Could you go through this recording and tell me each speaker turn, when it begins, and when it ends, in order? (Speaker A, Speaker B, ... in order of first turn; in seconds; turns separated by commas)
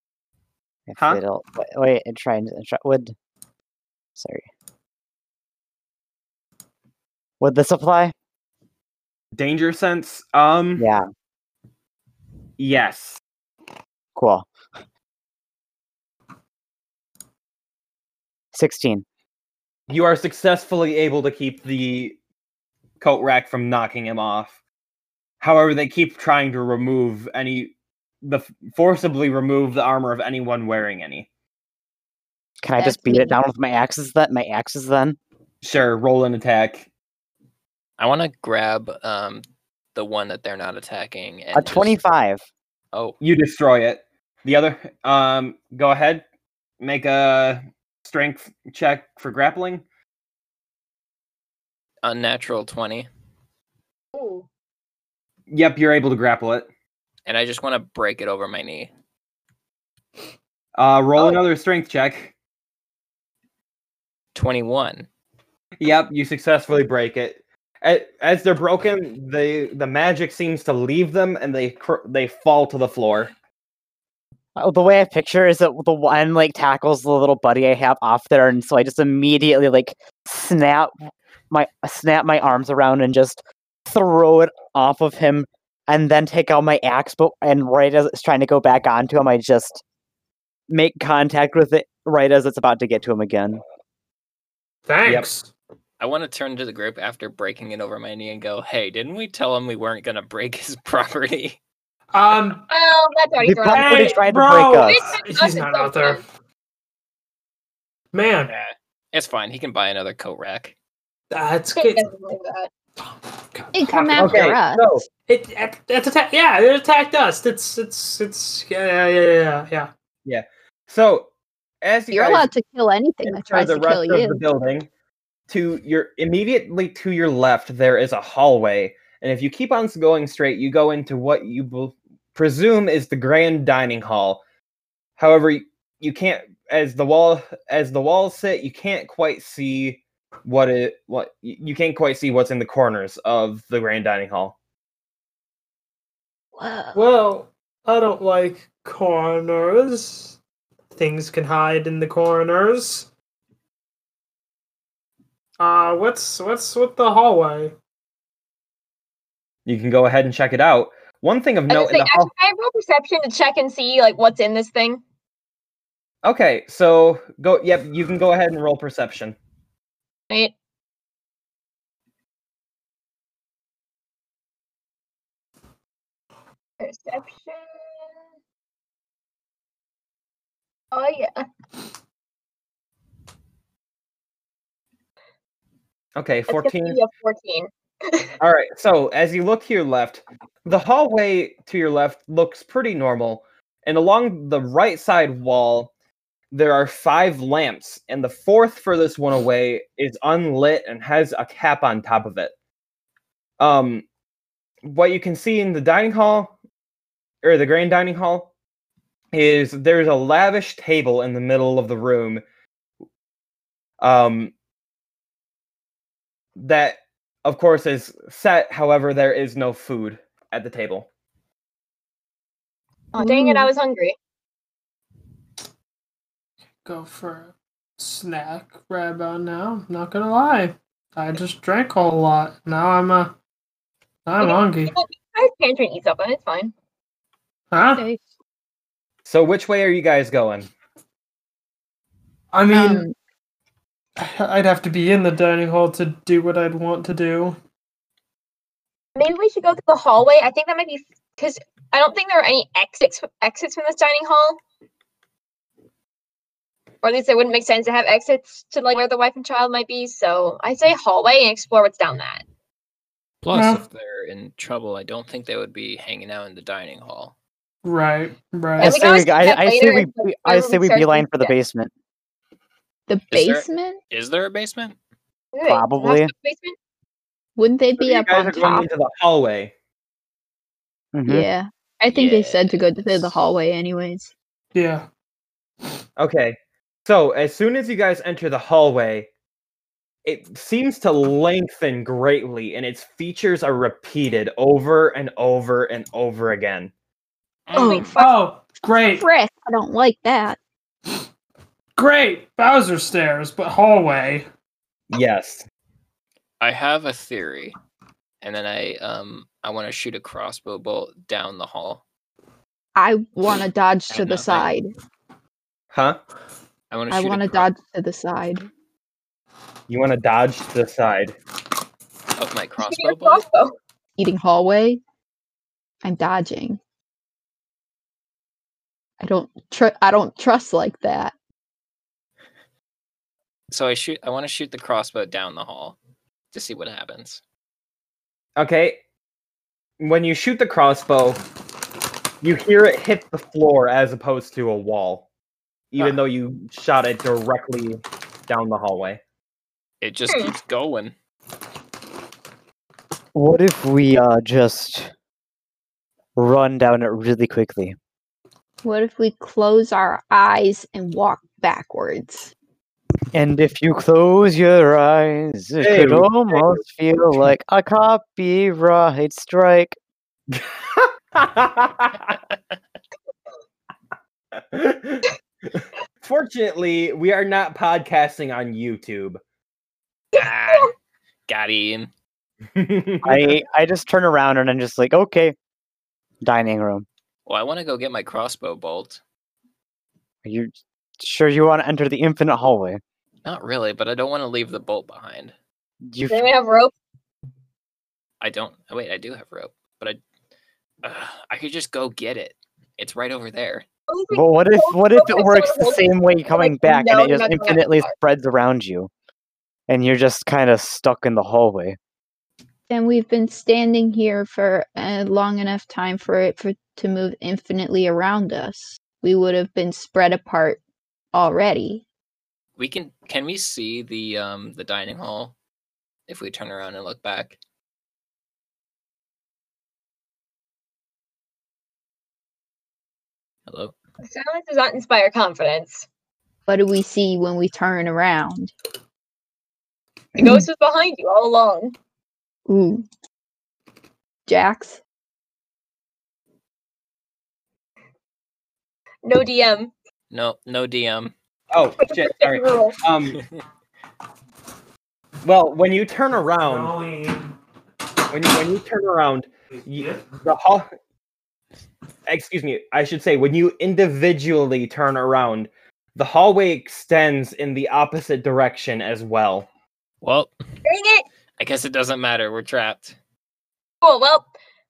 Speaker A: 0.9-3.1, Speaker A: 4.2-4.5, Speaker A: 7.4-8.1, Speaker B: 9.3-10.9, Speaker A: 10.8-11.1, Speaker B: 12.6-13.2, Speaker A: 14.2-14.5, Speaker A: 18.5-19.1, Speaker B: 19.9-22.2, Speaker B: 23.0-24.6, Speaker B: 25.4-31.3, Speaker A: 32.6-35.2, Speaker C: 32.8-33.4, Speaker B: 35.6-36.9, Speaker D: 38.0-39.4, Speaker D: 40.0-42.0, Speaker A: 41.5-42.4, Speaker B: 43.2-46.2, Speaker B: 46.8-49.8, Speaker D: 52.0-53.1, Speaker E: 54.1-54.5, Speaker B: 55.5-56.7, Speaker D: 57.3-58.9, Speaker B: 60.8-62.3, Speaker D: 64.3-65.1, Speaker B: 65.8-73.3, Speaker A: 74.6-80.9, Speaker A: 81.5-89.8, Speaker A: 90.7-93.6, Speaker F: 94.9-95.5, Speaker D: 96.0-101.6, Speaker F: 102.1-102.7, Speaker E: 102.7-104.3, Speaker A: 103.4-105.2, Speaker F: 103.7-106.2, Speaker E: 104.8-106.2, Speaker F: 108.1-108.5, Speaker D: 108.5-110.7, Speaker F: 111.3-112.1, Speaker E: 111.8-112.7, Speaker F: 113.5-114.5, Speaker C: 113.7-115.0, Speaker B: 114.2-115.1, Speaker F: 115.3-119.9, Speaker B: 120.2-121.3, Speaker B: 121.8-122.5, Speaker C: 122.1-124.4, Speaker B: 123.3-124.9, Speaker B: 125.5-134.4, Speaker B: 135.2-144.6, Speaker C: 146.6-147.0, Speaker F: 146.9-150.4, Speaker F: 150.9-153.1, Speaker F: 155.6-157.7, Speaker B: 159.7-162.3, Speaker E: 161.7-165.0, Speaker B: 166.2-169.4, Speaker E: 176.8-177.7, Speaker E: 180.9-181.5, Speaker B: 186.2-187.0, Speaker E: 186.5-188.3, Speaker B: 188.4-195.9, Speaker B: 196.5-202.5, Speaker B: 203.6-204.1, Speaker B: 204.8-206.5, Speaker B: 207.4-208.5, Speaker B: 209.3-212.4, Speaker B: 214.0-214.5, Speaker B: 216.6-221.1, Speaker E: 223.1-224.2, Speaker C: 223.2-223.7, Speaker F: 226.8-233.3, Speaker F: 234.3-234.9, Speaker E: 234.4-236.7, Speaker F: 237.7-238.0, Speaker C: 237.9-238.2, Speaker B: 239.3-240.7, Speaker F: 242.5-243.1, Speaker C: 242.7-243.1, Speaker F: 244.2-247.6, Speaker E: 249.2-254.6, Speaker E: 257.0-262.4, Speaker D: 263.4-267.3, Speaker F: 263.5-263.8, Speaker F: 267.8-269.0, Speaker E: 268.8-271.6, Speaker A: 268.8-271.9, Speaker C: 273.1-274.0, Speaker D: 273.3-275.0, Speaker E: 275.5-276.8, Speaker A: 275.7-276.3, Speaker C: 277.6-278.9, Speaker B: 278.0-279.7, Speaker A: 281.1-281.5, Speaker C: 281.3-284.3, Speaker D: 282.1-283.3, Speaker F: 284.7-285.1, Speaker B: 286.2-289.3, Speaker B: 290.2-296.9, Speaker D: 297.7-298.2, Speaker E: 297.7-298.2, Speaker F: 298.1-299.3, Speaker C: 299.2-300.6, Speaker F: 302.0-304.5, Speaker B: 305.1-305.6, Speaker D: 306.6-307.8, Speaker D: 308.4-312.0, Speaker C: 313.0-314.9, Speaker D: 314.1-314.7, Speaker B: 315.9-316.2, Speaker D: 316.9-317.7, Speaker C: 317.1-318.7, Speaker B: 319.9-321.4, Speaker D: 322.4-323.4, Speaker E: 322.8-323.8, Speaker C: 324.2-325.0, Speaker C: 326.0-326.8, Speaker C: 329.2-331.3, Speaker D: 333.7-336.0, Speaker D: 336.5-337.4, Speaker B: 338.6-339.0, Speaker B: 340.0-341.4, Speaker B: 342.4-345.3, Speaker B: 345.9-349.2, Speaker D: 350.0-351.1, Speaker E: 350.3-350.5, Speaker A: 353.4-355.1, Speaker A: 356.4-357.9, Speaker C: 358.8-362.5, Speaker A: 363.3-370.0, Speaker B: 365.8-366.8, Speaker B: 370.5-372.3, Speaker B: 374.5-379.4, Speaker E: 380.3-380.9, Speaker D: 380.4-380.9, Speaker D: 381.5-382.1, Speaker B: 382.8-383.6, Speaker A: 383.2-385.6, Speaker A: 386.4-387.1, Speaker D: 387.5-389.2, Speaker A: 390.4-393.0, Speaker D: 393.4-395.6, Speaker A: 396.1-396.5, Speaker E: 396.3-396.9, Speaker D: 398.4-400.2, Speaker D: 401.0-403.9, Speaker E: 404.1-408.1, Speaker A: 404.3-409.1, Speaker A: 409.9-412.0, Speaker C: 412.9-420.8, Speaker C: 421.3-422.0, Speaker D: 422.8-425.5, Speaker D: 426.3-427.6, Speaker D: 433.7-433.9, Speaker E: 434.2-436.1, Speaker C: 436.7-438.7, Speaker E: 440.4-441.9, Speaker C: 440.4-440.6, Speaker C: 442.7-443.1, Speaker C: 444.5-445.0, Speaker E: 449.2-449.9, Speaker D: 450.3-451.3, Speaker B: 451.7-453.4, Speaker E: 452.0-453.0, Speaker B: 455.4-457.0, Speaker F: 456.5-457.5, Speaker B: 458.3-460.9, Speaker B: 462.3-469.7, Speaker D: 470.2-470.5, Speaker E: 470.9-471.3, Speaker D: 471.6-473.2, Speaker E: 474.0-474.5